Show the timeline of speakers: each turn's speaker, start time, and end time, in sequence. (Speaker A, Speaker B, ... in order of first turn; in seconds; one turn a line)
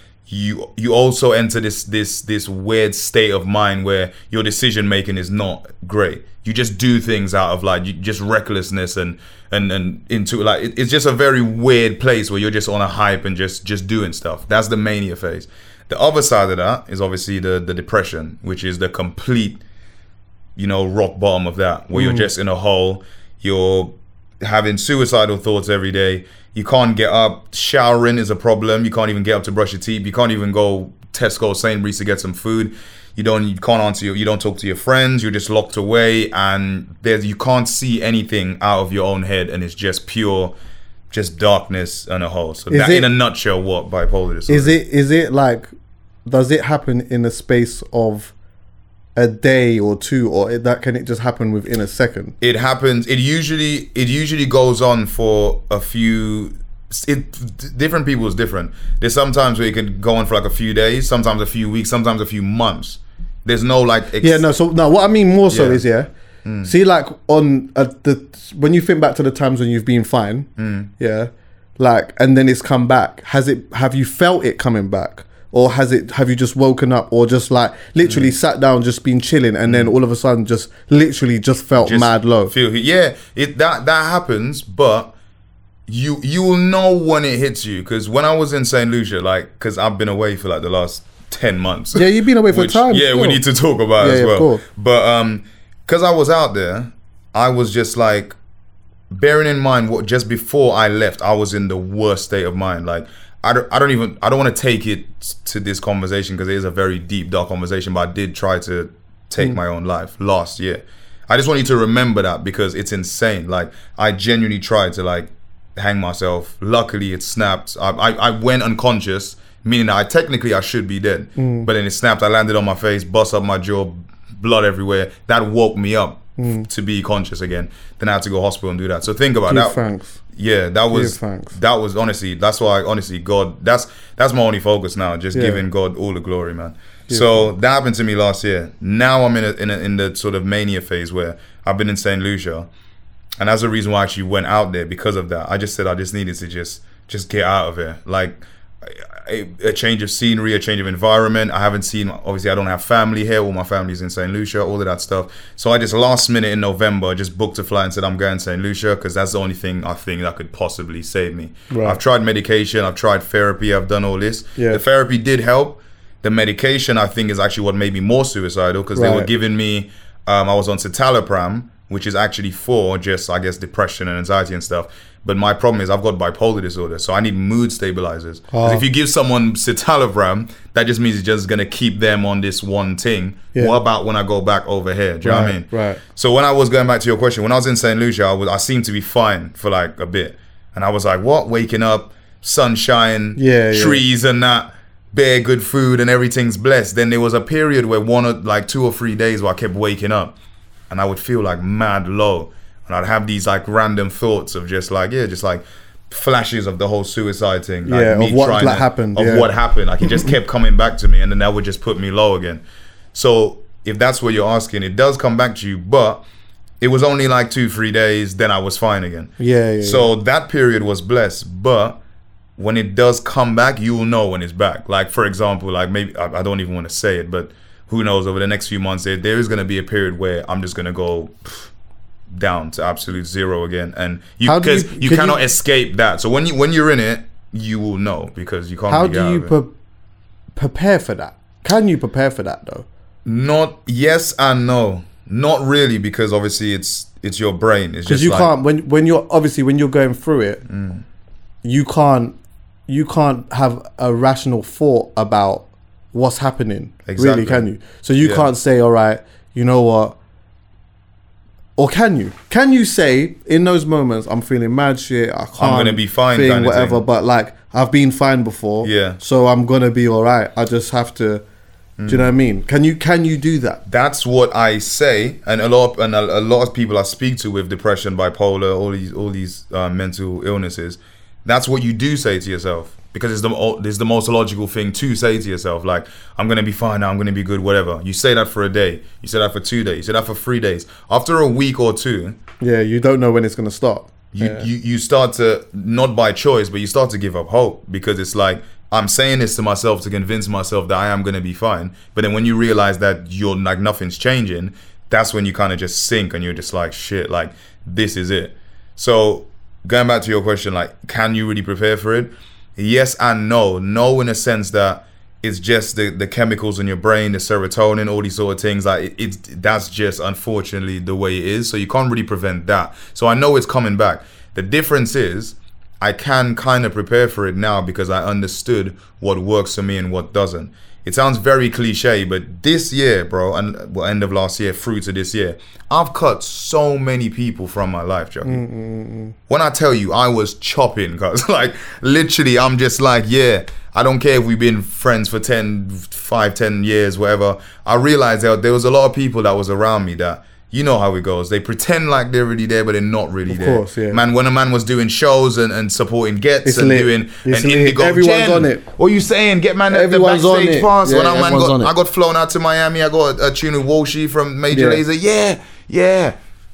Speaker A: 0.3-19.6
Speaker A: 20.6-40.5
Speaker B: 21.9-22.3
Speaker A: 41.1-44.8
Speaker B: 42.7-43.1
Speaker B: 44.5-45.7
Speaker B: 46.2-48.3
Speaker B: 49.1-52.3
Speaker A: 52.4-64.4
Speaker B: 64.2-66.1
Speaker A: 65.5-65.8
Speaker A: 66.4-66.7
Speaker B: 66.6-82.5
Speaker A: 70.6-70.9
Speaker A: 78.0-78.3
Speaker A: 79.7-79.9
Speaker A: 81.8-85.1
Speaker A: 85.9-98.3
Speaker B: 91.9-93.4
Speaker B: 94.0-94.6
Speaker A: 99.1-129.8
Speaker B: 121.4-121.7
Speaker B: 126.4-126.7
Speaker B: 129.5-130.2
Speaker A: 130.3-142.7
Speaker B: 130.9-131.6
Speaker B: 135.3-135.6
Speaker B: 137.1-137.4
Speaker A: 143.4-200.3
Speaker B: 161.7-162.0
Speaker B: 164.6-164.8
Speaker B: 168.9-169.3
Speaker B: 178.5-178.8
Speaker B: 185.2-186.0
Speaker B: 193.3-194.0
Speaker A: 200.9-212.6
Speaker B: 207.8-209.5
Speaker A: 213.1-216.2
Speaker A: 216.8-219.3
Speaker B: 219.4-220.1
Speaker A: 219.8-222.0
Speaker A: 222.6-231.7
Speaker A: 232.3-239.5
Speaker B: 234.4-235.4
Speaker B: 238.9-239.7
Speaker B: 240.5-242.8
Speaker A: 243.2-248.5
Speaker B: 248.1-250.6
Speaker A: 250.7-251.0
Speaker B: 251.6-252.3
Speaker B: 252.9-260.1
Speaker A: 257.1-257.7
Speaker A: 258.2-258.5
Speaker B: 261.8-271.4
Speaker A: 265.6-267.0
Speaker A: 268.8-269.2
Speaker A: 272.0-272.3
Speaker B: 272.1-273.8
Speaker A: 273.9-292.4
Speaker B: 292.6-294.7
Speaker A: 294.3-338.6
Speaker B: 338.4-339.3
Speaker A: 339.5-366.3
Speaker B: 353.5-354.2
Speaker B: 356.6-358.8
Speaker B: 359.9-361.9
Speaker B: 364.7-365.0